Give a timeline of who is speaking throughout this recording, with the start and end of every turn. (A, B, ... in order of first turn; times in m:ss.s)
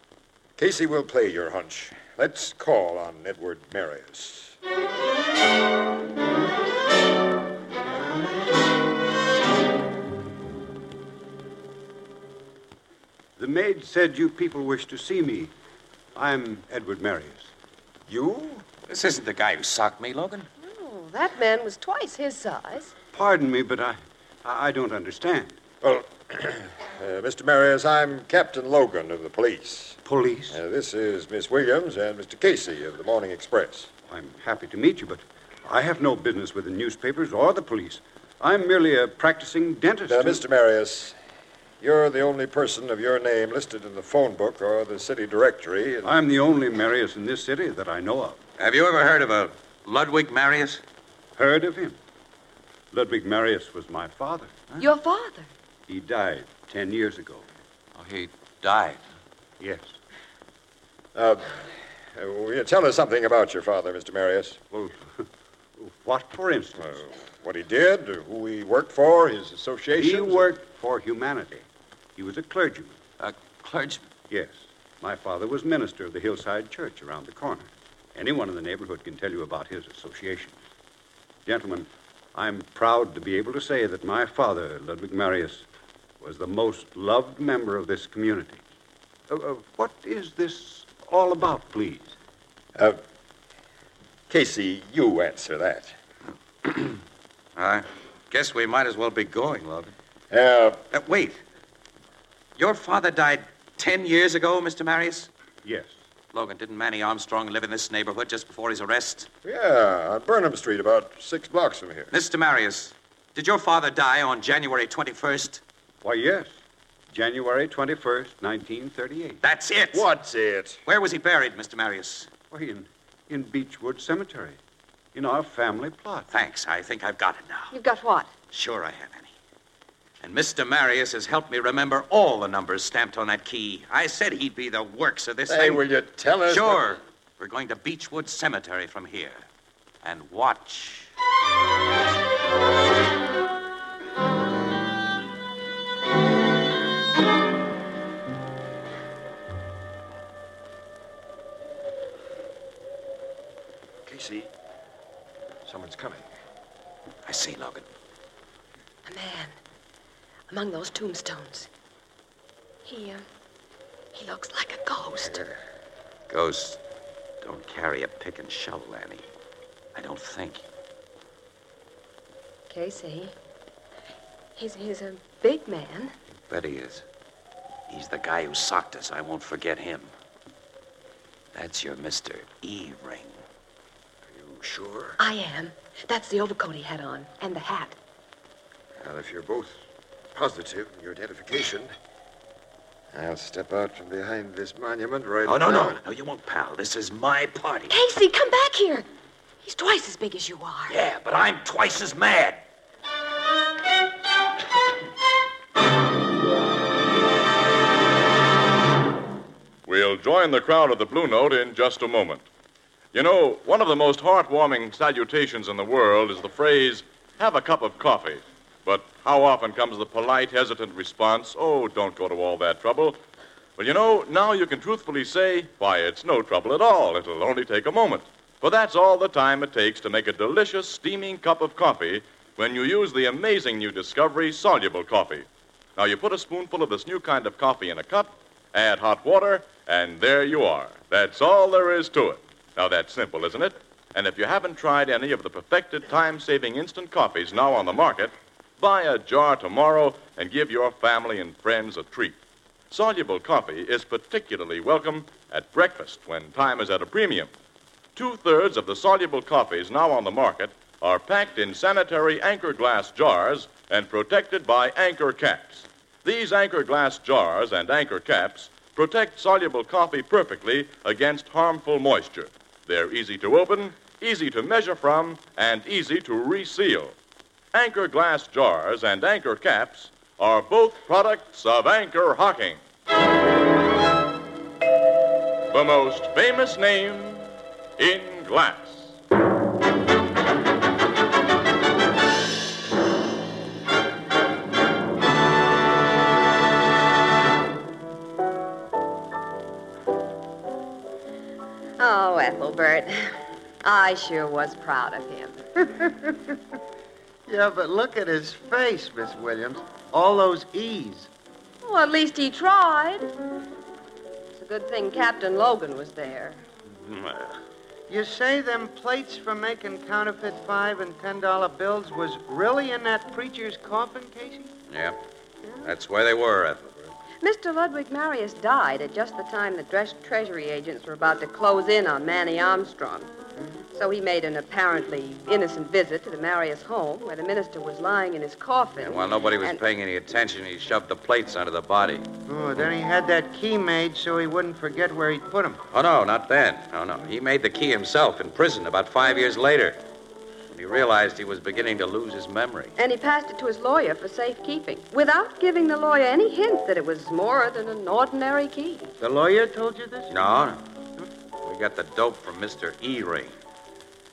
0:00.6-0:04.6 A
0:13.4-0:15.5 B
0:16.2-0:17.5 B
0:18.1-0:18.6 A
0:18.9-0:20.5 C
0:20.6-0:23.0 D
0:23.1-0:25.6 B
0:25.8-0:30.0 A
0:30.1-0:30.6 B
0:30.5-0:33.9 A
0:34.1-0:40.4 B
0:40.1-0:41.2 A
0:41.8-0:46.1 A
0:46.0-0:48.4 B
0:48.6-0:50.8 C
0:51.4-0:52.0 B
0:52.9-0:54.6 B
0:54.8-0:55.5 D
0:55.9-0:57.4 B
0:58.0-0:59.0 C
0:59.6-0:59.9 B
1:01.2-1:01.6 A
1:02.1-1:04.6 A
1:04.7-1:05.0 B
1:05.8-1:07.1 B
1:06.8-1:10.5 A
1:09.9-1:11.6 B
1:12.2-1:13.0 B
1:13.2-1:14.1 C
1:14.3-1:20.6 B
1:21.5-1:25.7 B
1:26.2-1:28.6 B
1:29.3-1:32.1 B
1:34.3-1:35.9 A
1:36.6-1:37.0 C
1:37.6-1:39.9 C
1:40.3-1:40.8 A
1:40.9-1:41.4 C
1:42.6-1:45.3 C
1:45.6-1:46.0 B
1:46.3-1:49.3 C
1:49.4-1:52.1 A
1:52.1-1:55.6 C
1:56.0-1:56.5 B
1:57.1-1:59.4 B
1:59.4-2:00.1 C
1:59.9-2:00.8 A
2:00.9-2:02.3 C
2:02.5-2:04.6 B
2:05.1-2:06.3 B
2:06.3-2:07.8 C
2:07.7-2:08.3 D
2:08.5-2:09.3 C
2:10.2-2:15.9 C
2:15.5-2:16.8 A
2:16.5-2:19.4 C
2:20.0-2:21.1 C
2:34.1-2:34.5 A
2:35.7-2:36.2 A
2:37.3-2:37.9 C
2:39.1-2:39.5 D
2:40.5-2:41.7 D
2:42.8-2:43.2 D
2:44.1-2:45.5 D
2:46.3-2:46.8 C
2:47.4-2:49.2 C
2:50.0-2:50.7 C
2:52.7-2:53.3 D
2:54.6-2:56.1 D
2:56.5-2:57.0 C
2:57.9-3:00.1 C
3:01.5-3:03.4 C
3:04.3-3:05.2 A
3:05.2-3:08.0 D
3:09.0-3:09.7 A
3:10.3-3:11.9 A
3:13.1-3:16.0 A
3:15.5-3:18.0 C
3:17.9-3:19.1 D
3:19.6-3:21.0 D
3:20.9-3:22.6 C
3:29.9-3:32.4 E
3:33.1-3:43.2 E
3:43.8-3:55.5 E
3:56.0-4:12.4 E
4:12.9-4:17.5 E
4:18.2-4:37.1 E
4:37.7-4:42.8 E
4:45.7-4:49.2 E
5:02.0-5:05.6 D
5:06.0-5:06.4 F
5:07.5-5:11.3 F
5:11.8-5:13.3 D
5:14.5-5:16.6 D
5:17.0-5:17.6 C
5:18.1-5:24.7 F
5:24.9-5:25.2 C
5:25.8-5:27.1 C
5:27.4-5:33.3 D
5:33.9-5:39.8 D
5:39.0-5:42.3 C
5:42.5-5:45.8 F
5:45.9-5:50.0 C
5:50.7-5:52.9 C
5:53.0-5:59.1 D
5:59.2-6:00.3 F
6:00.3-6:00.8 C
6:01.6-6:03.6 C